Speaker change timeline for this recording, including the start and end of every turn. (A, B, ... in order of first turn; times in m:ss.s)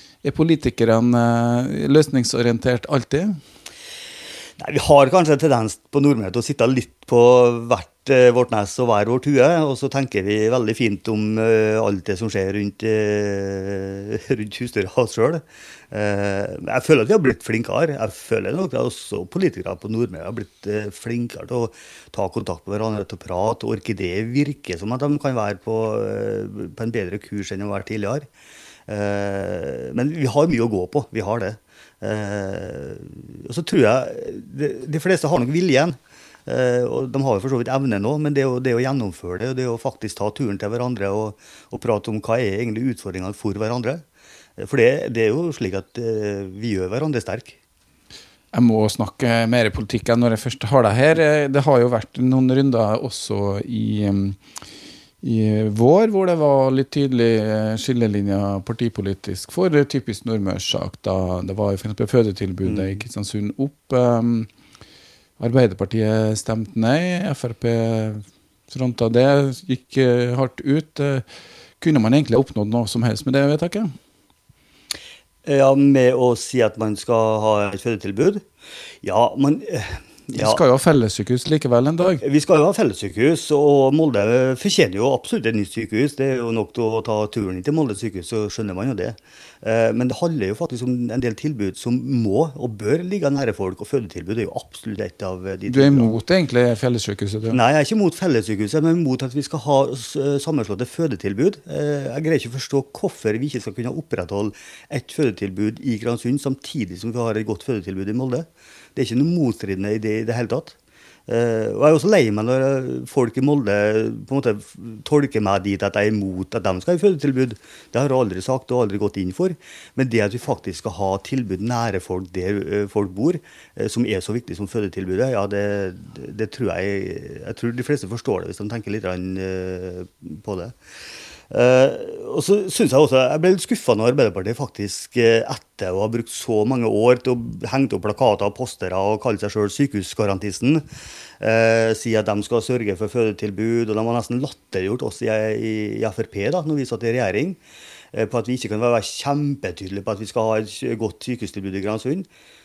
0:00.2-0:03.4 A
0:04.6-0:28.3 B
0:28.9-0:44.0 B
0:44.6-0:47.6 B
0:48.5-0:54.4 A
0:55.2-1:04.5 A
1:02.6-1:03.0 B
1:05.4-1:11.2 A
1:11.8-1:13.9 A
1:15.4-1:18.4 B
1:19.0-1:20.6 B
1:20.3-1:22.2 A
1:22.2-1:36.2 B
1:35.7-1:37.6 A
1:37.5-2:10.8 B
2:11.5-2:20.8 B
2:21.4-2:27.6 B
2:28.1-2:32.3 B